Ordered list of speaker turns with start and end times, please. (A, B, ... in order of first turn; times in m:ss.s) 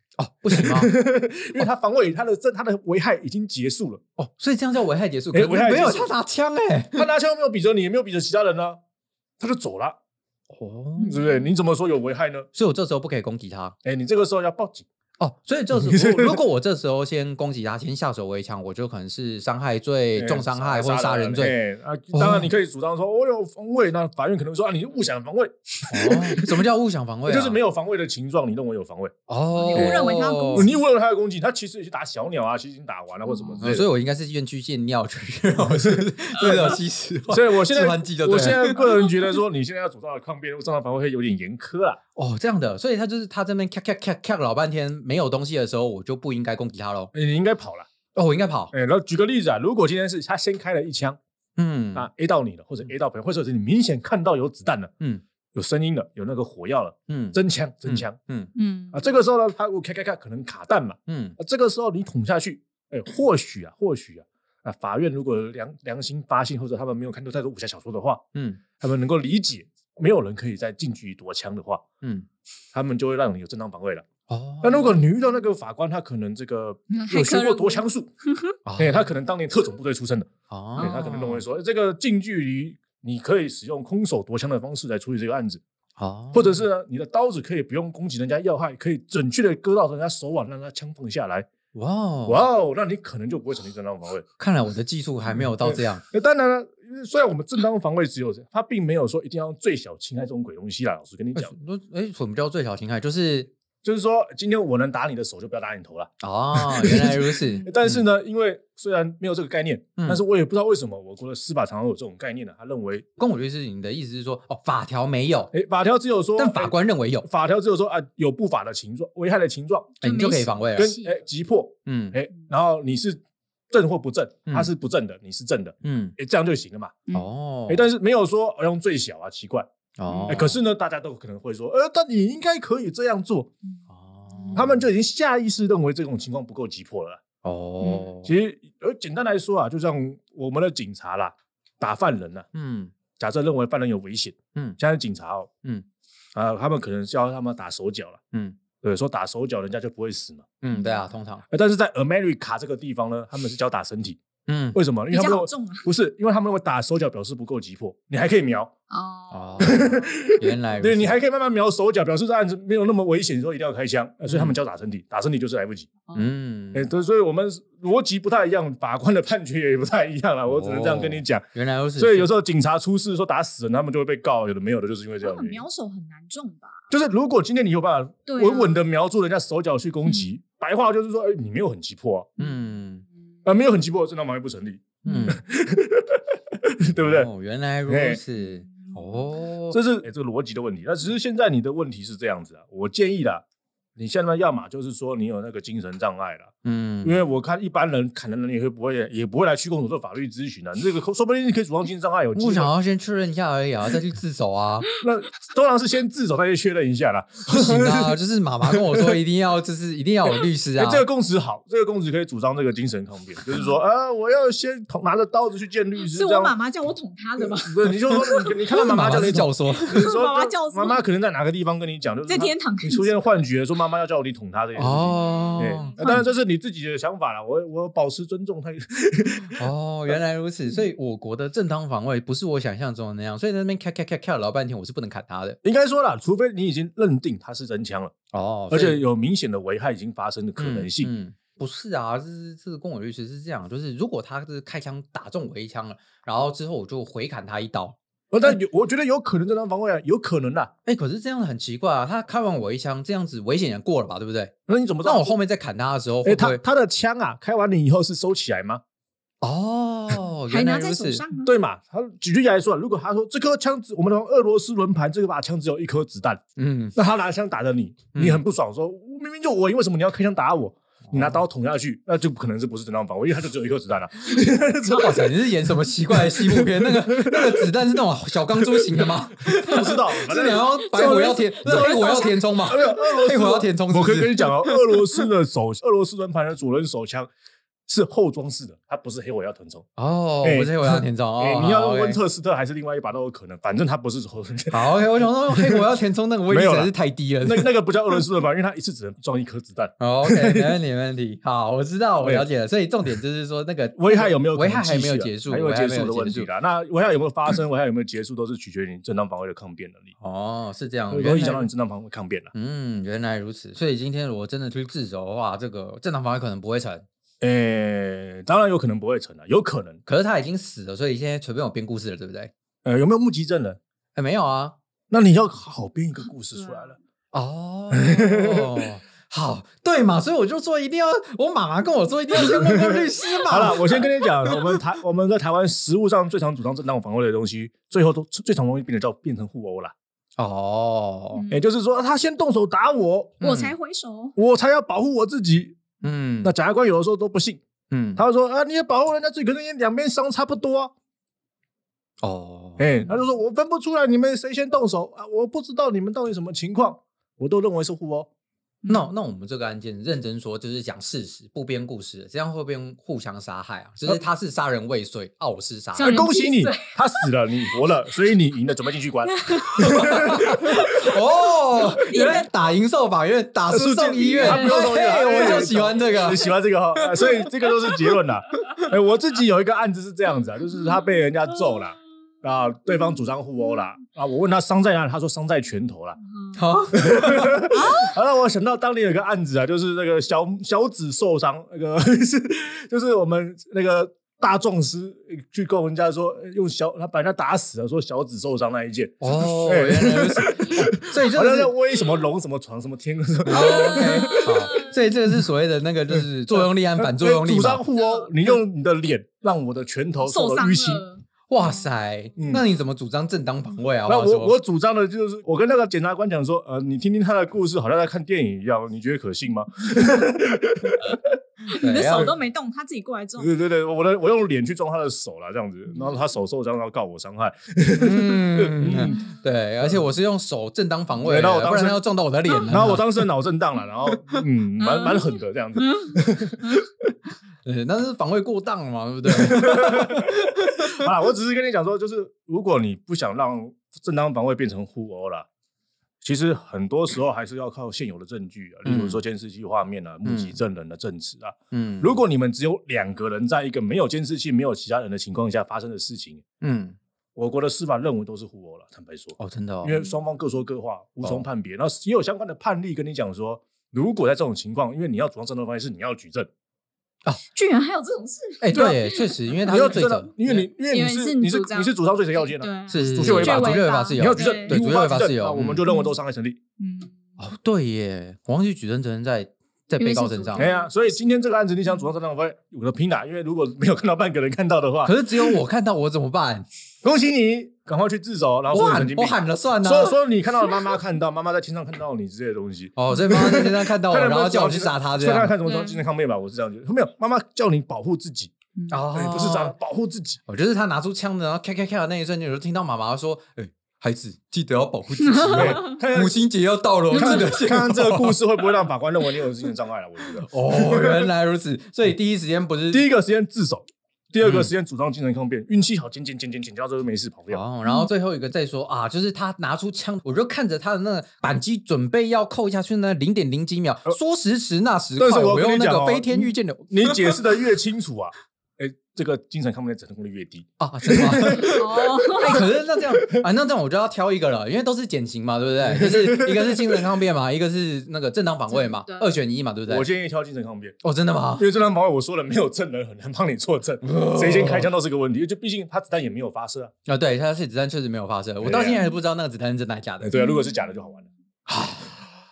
0:00.2-0:00.9 A
0:00.5-0:04.0 B
0:04.2-0:07.1 A
0:05.3-0:06.1 B
0:06.9-0:08.8 B
0:09.4-0:10.0 B
0:10.5-0:11.2 A
0:11.0-0:11.4 C
0:11.0-0:12.5 B
0:12.5-0:13.8 A
0:13.8-0:14.9 B
0:15.2-0:21.6 A
0:15.7-0:16.4 B
0:20.2-0:26.6 B
0:22.1-0:22.5 A
0:25.9-0:27.6 A
0:27.3-0:29.1 B
0:29.3-0:30.7 A
0:29.5-0:30.7 C
0:29.7-0:30.0 B
0:30.5-0:33.9 B
0:33.3-0:33.6 C
0:33.6-0:39.2 A
0:36.4-0:36.8 C
0:37.3-0:42.0 B
0:42.1-0:47.1 A
0:47.1-0:47.9 B
0:48.1-0:48.7 A
0:48.7-0:51.2 B
0:51.6-0:52.1 A
0:51.9-0:54.9 B
0:55.5-0:58.2 B
0:57.1-0:58.5 A
0:58.5-0:59.0 C
0:58.9-1:08.2 B
1:01.1-1:01.4 A
1:08.3-1:08.6 A
1:08.8-1:11.8 B
1:12.0-1:12.3 A
1:12.7-1:14.0 B
1:14.3-1:15.0 A
1:14.6-1:18.1 B
1:16.9-1:17.8 C
1:18.6-1:19.1 A
1:18.8-1:25.6 B
1:20.5-1:21.4 A
1:20.8-1:21.2 C
1:26.0-1:26.6 A
1:26.3-1:31.5 B
1:31.7-1:32.5 A
1:32.3-1:34.2 B
1:34.4-1:36.0 A
1:35.3-1:41.5 B
1:41.3-1:43.5 A
1:43.8-1:53.0 B
1:46.2-1:48.0 A
1:53.2-1:55.5 A
1:55.5-2:00.0 B
1:56.4-1:57.3 A
2:00.0-2:01.0 A
2:00.0-2:01.1 C
2:00.7-2:07.0 B
2:01.8-2:02.2 A
2:05.8-2:06.1 A
2:07.1-2:07.9 A
2:07.7-2:09.7 B
2:10.0-2:10.6 A
2:10.1-2:10.4 C
2:10.3-2:13.5 B
2:13.9-2:14.8 A
2:14.3-2:14.6 C
2:14.5-2:17.2 B
2:17.4-2:18.3 A
2:17.8-2:18.1 C
2:18.2-2:22.4 B
2:22.5-2:22.9 A
2:23.2-2:25.5 B
2:24.5-2:24.8 A
2:26.3-2:28.2 B
2:28.3-2:28.6 A
2:28.8-2:30.4 B
2:30.6-2:31.4 A
2:30.7-2:31.1 C
2:31.5-2:34.2 B
2:34.5-2:34.8 A
2:34.7-2:38.7 B
2:35.1-2:35.9 C
2:38.9-2:39.7 C
2:39.3-2:41.2 A
2:39.6-2:45.9 B
2:44.2-2:44.6 A
2:46.1-2:46.9 A
2:46.7-2:51.4 B
2:50.5-2:52.3 A
2:52.0-2:55.6 B
2:55.2-2:56.8 C
2:56.9-3:02.3 B
2:58.3-2:58.8 C
3:00.0-3:00.4 C
3:02.4-3:03.0 A
3:03.4-3:07.3 B
3:05.0-3:05.4 A
3:05.0-3:05.4 C
3:07.0-3:09.8 A
3:07.9-3:08.2 B
3:09.7-3:13.4 B
3:14.0-3:16.5 B
3:16.6-3:17.2 A
3:17.0-3:22.7 B
3:22.3-3:24.9 A
3:25.0-3:29.2 B
3:27.5-3:31.1 A
3:30.8-3:36.5 B
3:36.0-3:39.0 C
3:37.6-3:50.2 B
3:38.7-3:40.0 A
3:39.8-3:41.0 C
3:42.2-3:43.2 C
3:44.8-3:46.2 A
3:45.1-3:46.3 C
3:49.6-3:55.6 A
3:55.6-3:58.1 B
3:58.3-3:59.0 A
3:58.7-4:01.1 B
4:00.6-4:08.0 A
4:08.3-4:10.7 B
4:10.8-4:16.6 A
4:14.7-4:15.4 B
4:16.2-4:18.8 B
4:19.4-4:21.2 A
4:20.5-4:21.6 C
4:21.4-4:26.4 B
4:26.6-4:26.9 A
4:26.9-4:37.7 B
4:28.1-4:28.4 A
4:31.1-4:31.4 A
4:34.9-4:44.7 A
4:38.6-4:47.3 B
4:40.6-4:42.4 C
4:47.9-4:49.9 B
4:50.0-4:52.2 A
4:50.4-4:55.9 B
4:54.7-4:57.8 A
4:56.5-5:00.8 B
5:00.0-5:06.5 A
5:02.2-5:02.5 B
5:04.0-5:10.1 B
5:10.2-5:11.7 A
5:11.1-5:12.5 B
5:12.5-5:17.0 A
5:17.4-5:20.0 B
5:20.0-5:22.5 A
5:22.8-5:23.8 B
5:24.1-5:24.8 A
5:25.1-5:27.0 B
5:27.3-5:34.6 A
5:27.9-5:28.9 B
5:32.3-5:39.9 B
5:40.4-5:41.4 A
5:41.3-5:41.6 C
5:41.5-5:43.4 B
5:43.4-5:43.7 A
5:43.4-5:44.4 C
5:44.4-5:45.8 B
5:46.0-5:46.5 A
5:46.4-5:47.6 B
5:47.9-5:48.2 A
5:48.2-5:50.9 B
5:52.2-5:53.1 A
5:52.8-5:58.3 B
5:58.8-5:59.1 C
5:58.9-6:06.3 A
6:06.0-6:06.9 C
6:06.0-6:10.6 B
6:09.3-6:10.0 C
6:09.8-6:16.5 A
6:11.7-6:12.5 C
6:13.7-6:26.2 B
6:14.2-6:15.7 C
6:26.5-6:27.7 A
6:26.9-6:44.7 B
6:27.7-6:28.1 C
6:39.2-6:41.7 A
6:43.4-6:47.8 A
6:43.5-6:45.1 C
6:46.1-6:51.0 B
6:48.0-6:48.4 C
6:50.2-6:51.2 C
6:51.5-6:54.6 A
6:52.4-6:52.7 B
6:54.0-7:01.2 B
7:01.7-7:03.5 C
7:01.7-7:02.3 A
7:03.4-7:10.0 B
7:07.9-7:13.1 A
7:11.2-7:12.0 B
7:12.7-7:16.9 B
7:14.8-7:16.1 C
7:17.6-7:20.8 A
7:19.3-7:25.4 B
7:26.2-7:36.4 B
7:28.8-7:29.2 A
7:30.2-7:30.6 A
7:31.7-7:32.2 A
7:36.6-7:37.0 A
7:37.4-7:46.5 B
7:39.4-7:40.0 A
7:47.5-7:49.8 C
7:48.6-7:50.7 A
7:48.7-7:49.0 B
7:49.6-7:56.6 B
7:50.9-7:54.8 C
7:52.9-7:55.8 A
7:55.8-7:56.1 C
7:56.8-7:57.1 C
7:57.4-8:00.7 A
8:00.0-8:00.9 C
8:00.6-8:05.6 B
8:05.0-8:06.6 A
8:07.0-8:18.5 B
8:08.7-8:10.2 A
8:13.0-8:15.6 A
8:15.6-8:16.0 C
8:18.8-8:19.0 C
8:18.9-8:19.7 A
8:19.1-8:20.4 B
8:20.5-8:28.4 A
8:25.5-8:26.4 B
8:27.1-8:31.2 B
8:27.1-8:27.7 C
8:30.5-8:33.1 A
8:32.9-8:37.6 B
8:34.4-8:34.7 A
8:37.5-8:47.3 A
8:45.2-8:53.4 B
8:50.8-8:51.8 A
8:51.6-8:52.7 C
8:52.4-9:00.1 A
8:55.8-8:57.1 B
8:58.7-8:59.3 C
8:59.9-9:01.0 B
9:01.0-9:01.7 A
9:01.6-9:06.9 B
9:04.0-9:04.9 A
9:07.1-9:10.3 A
9:08.6-9:09.0 B
9:10.2-9:11.3 B
9:10.3-9:10.9 C
9:11.7-9:12.3 A